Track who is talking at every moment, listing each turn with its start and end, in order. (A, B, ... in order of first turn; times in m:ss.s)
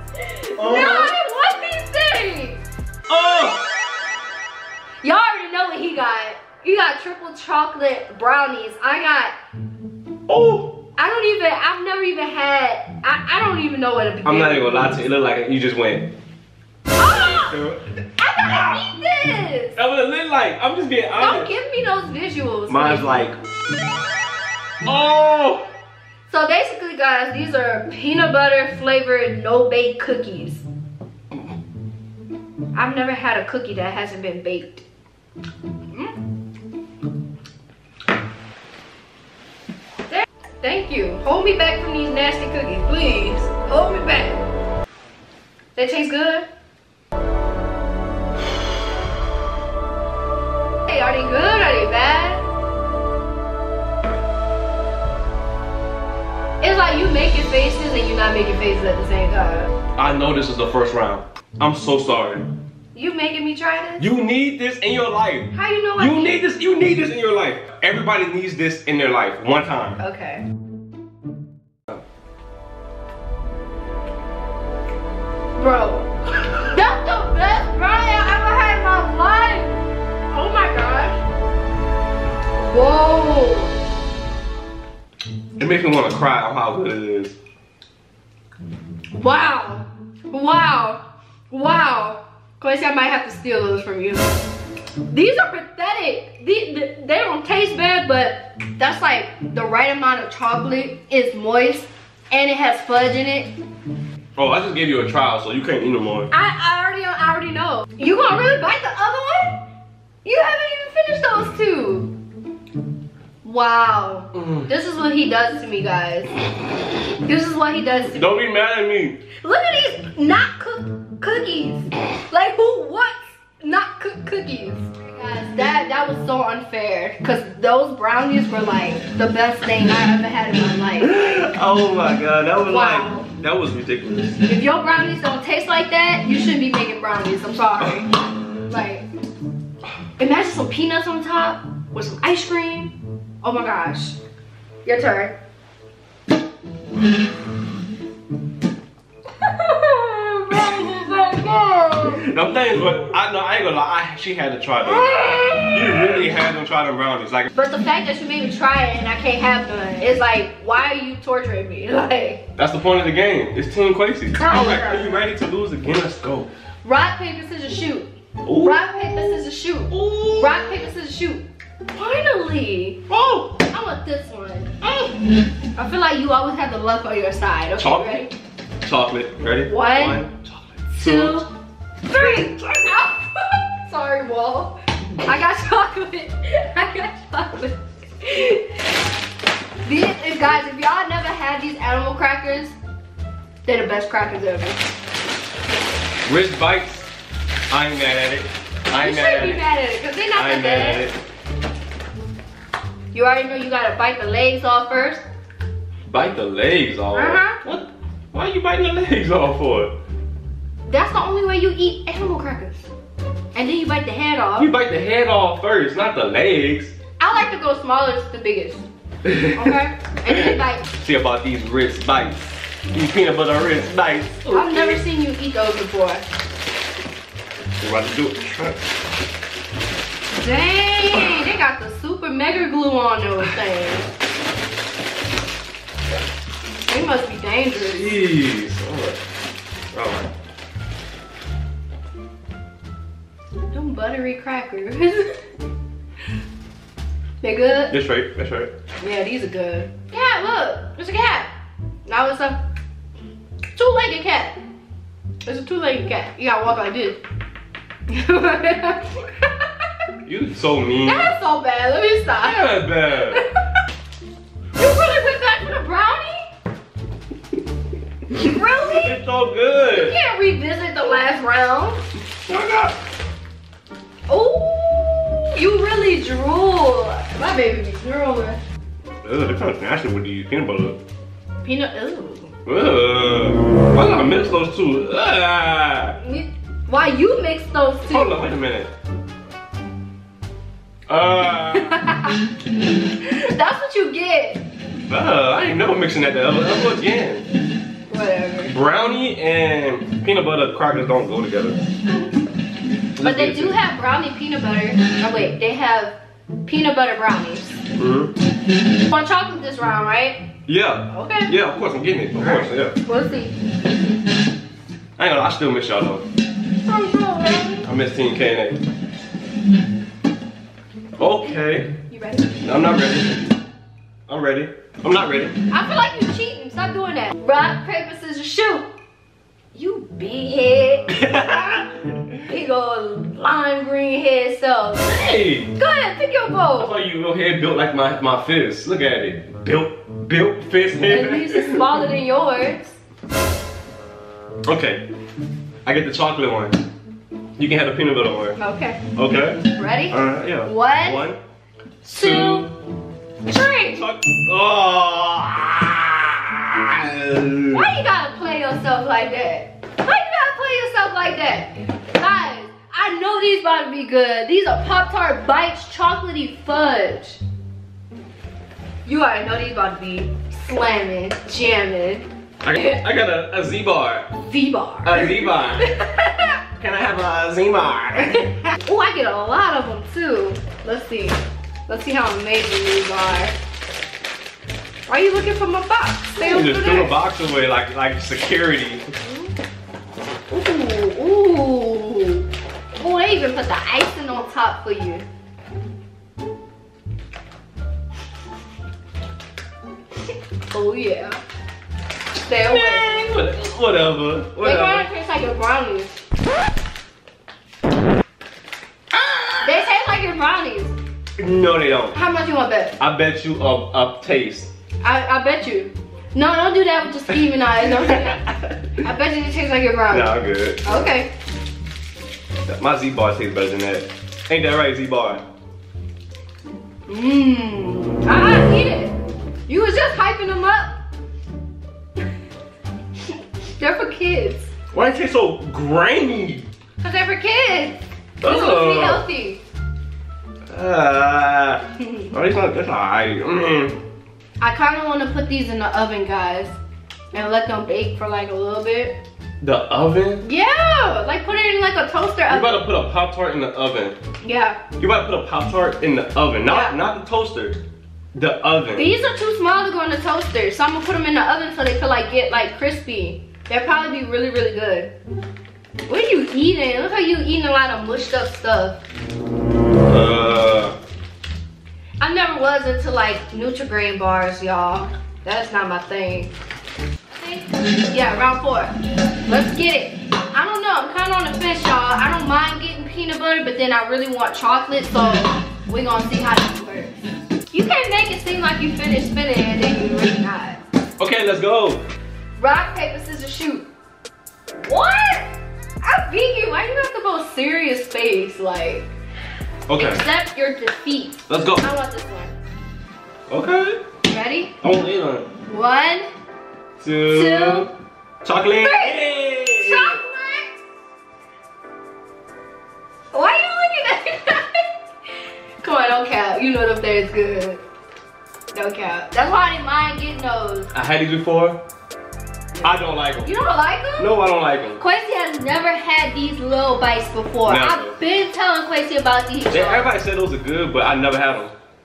0:00.2-0:02.6 A
0:00.6-0:01.1 B
0:03.1-0:03.6 B
0:05.0-0:09.3 A
0:10.3-0:10.7 B
0:11.0-0:15.0 A
0:14.2-0:16.0 B
0:17.0-0:17.6 A
0:17.2-0:18.8 B
0:18.2-0:19.8 A
0:19.8-0:21.5 B
0:21.2-0:23.2 A
0:22.7-0:23.4 B
0:24.8-0:25.6 B
0:26.3-0:30.6 A
0:32.7-0:34.8 A
0:40.1-0:44.4 A
0:45.7-0:46.4 A
0:50.8-0:52.4 A
0:56.6-0:59.7 A
1:00.0-1:02.4 B
1:02.9-1:04.0 A
1:04.0-1:10.0 B
1:05.5-1:06.4 A
1:10.0-1:10.4 A
1:15.6-1:21.2 A
1:22.6-1:23.7 A
1:25.6-1:27.4 B
1:29.1-1:34.2 A
1:35.1-1:43.5 A
1:44.4-1:46.3 B
1:46.3-1:49.6 A
1:50.2-1:52.1 A
1:53.4-1:56.4 A
1:54.4-1:54.6 B
1:57.2-1:58.4 A
1:58.1-1:59.2 B
1:59.4-2:11.4 A
2:11.0-2:14.4 B
2:12.6-2:13.3 A
2:14.4-2:18.1 A
2:18.7-2:19.1 A
2:20.2-2:24.2 A
2:24.8-2:25.3 A
2:29.4-2:32.2 A
2:30.5-2:31.0 B
2:32.0-2:37.5 B
2:34.8-2:35.9 A
2:37.5-2:42.4 A
2:42.6-2:46.5 B
2:44.4-2:45.1 A
2:46.8-2:54.9 A
2:48.4-2:48.8 B
2:49.9-2:50.8 B
2:53.1-2:53.5 B
2:55.8-2:58.3 A
2:57.8-2:58.2 B
2:58.8-3:01.5 B
2:59.7-3:00.2 A
3:00.9-3:01.5 A
3:02.1-3:08.8 A
3:02.1-3:03.0 B
3:09.8-3:12.7 A
3:13.6-3:14.8 A
3:16.2-3:17.1 B
3:17.7-3:19.6 B
3:19.0-3:21.0 A
3:20.3-3:21.2 B
3:23.1-3:25.2 A
3:26.1-3:29.9 B
3:27.1-3:27.6 A
3:30.9-3:32.9 A
3:33.5-3:34.7 A
3:34.6-3:36.9 B
3:37.2-3:38.8 A
3:39.2-3:39.7 B
3:39.4-3:40.8 A
3:40.3-3:45.0 B
3:44.4-3:46.2 A
3:47.8-3:48.8 B
3:50.3-3:54.1 A
3:56.9-3:58.2 A
3:57.8-3:59.2 B
3:59.9-4:00.3 B
4:03.7-4:05.4 A
4:07.4-4:07.9 A
4:07.9-4:08.7 B
4:09.0-4:11.5 A
4:12.0-4:12.6 A
4:13.7-4:14.6 A
4:15.4-4:17.2 A
4:18.1-4:19.6 A
4:20.2-4:21.3 B
4:21.0-4:23.6 A
4:22.4-4:23.4 B
4:24.8-4:26.5 A
4:28.3-4:29.2 A
4:28.8-4:30.2 B
4:29.9-4:32.0 A
4:32.5-4:32.9 B
4:34.3-4:38.6 A
4:39.2-4:41.0 B
4:41.6-4:42.5 A
4:42.6-4:46.2 B
4:46.2-4:48.4 A
4:48.1-4:48.9 B
4:51.1-4:52.2 B
4:51.8-4:52.4 A
4:53.2-4:54.6 A
4:55.0-4:57.5 B
4:58.1-4:58.7 A
4:58.7-5:01.8 B
5:03.2-5:03.8 B
5:03.2-5:07.8 A
5:07.9-5:08.3 B
5:09.1-5:10.4 A
5:10.6-5:12.9 B
5:11.1-5:11.5 A
5:12.4-5:13.8 A
5:15.2-5:16.2 B
5:16.8-5:17.9 A
5:17.8-5:18.8 B
5:21.2-5:21.9 B
5:22.1-5:22.6 A
5:22.6-5:23.4 B
5:24.3-5:25.6 B
5:25.7-5:28.9 A
5:29.7-5:31.1 A
5:31.1-5:32.3 B
5:32.5-5:35.1 A
5:35.0-5:35.7 B
5:35.7-5:36.9 A
5:36.8-5:42.0 B
5:41.0-5:43.0 A
5:44.6-5:45.0 B
5:45.8-5:46.8 B
5:47.6-5:48.6 B
5:48.6-5:49.0 A
5:49.1-5:49.6 B
5:49.7-5:51.3 A
5:50.1-5:51.4 B
5:52.0-5:52.7 A
5:52.0-5:52.7 B
5:53.4-5:54.0 A
5:53.9-5:57.9 B
5:57.7-6:07.4 A
6:09.0-6:12.3 A
6:12.6-6:14.3 B
6:14.4-6:16.6 A
6:15.0-6:15.9 B
6:16.8-6:18.5 B
6:18.7-6:23.5 A
6:25.1-6:27.2 A
6:26.4-6:29.0 B
6:29.2-6:29.5 A
6:30.5-6:35.2 A
6:40.7-6:41.4 A
6:42.4-6:43.2 A
6:42.6-6:45.1 B
6:44.6-6:46.1 A
6:49.1-6:49.8 B
6:49.6-6:50.9 A
6:51.4-6:52.2 B
6:52.1-6:53.0 A
6:53.0-6:54.7 B
6:55.0-7:01.3 A
6:58.0-6:58.8 B
7:00.1-7:00.8 B
7:02.7-7:05.4 B
7:07.1-7:09.2 A
7:09.7-7:10.9 A
7:13.8-7:14.7 A
7:14.9-7:16.6 B
7:17.0-7:19.6 A
7:18.4-7:19.2 B
7:20.7-7:24.0 B
7:22.0-7:22.3 A
7:24.6-7:26.7 A
7:27.3-7:29.1 A
7:29.6-7:30.4 B
7:30.4-7:32.8 A
7:32.5-7:34.2 B
7:34.4-7:34.8 A
7:35.0-7:37.8 B
7:36.6-7:37.0 A
7:38.3-7:39.1 B
7:39.0-7:45.1 A
7:46.1-7:49.0 A
7:50.1-7:51.0 B
7:52.2-7:56.5 A
7:57.3-7:58.9 A
7:59.5-8:10.8 A
8:11.2-8:12.0 B
8:12.6-8:13.9 A
8:14.8-8:15.5 A
8:16.0-8:19.1 A
8:19.9-8:20.2 B
8:20.0-8:22.5 A
8:21.5-8:21.8 B
8:23.5-8:24.0 B
8:24.3-8:24.7 A
8:24.8-8:25.5 B
8:25.7-8:26.3 A
8:27.0-8:27.9 B
8:27.3-8:27.9 A
8:28.4-8:30.2 B
8:28.8-8:30.7 A
8:33.3-8:34.9 A
8:35.8-8:37.8 A
8:38.7-8:40.9 A
8:40.9-8:41.8 B
8:42.8-8:43.5 B
8:43.4-8:44.4 A
8:44.2-8:45.0 B
8:45.0-8:50.1 A
8:47.6-8:48.2 B
8:49.7-8:51.7 B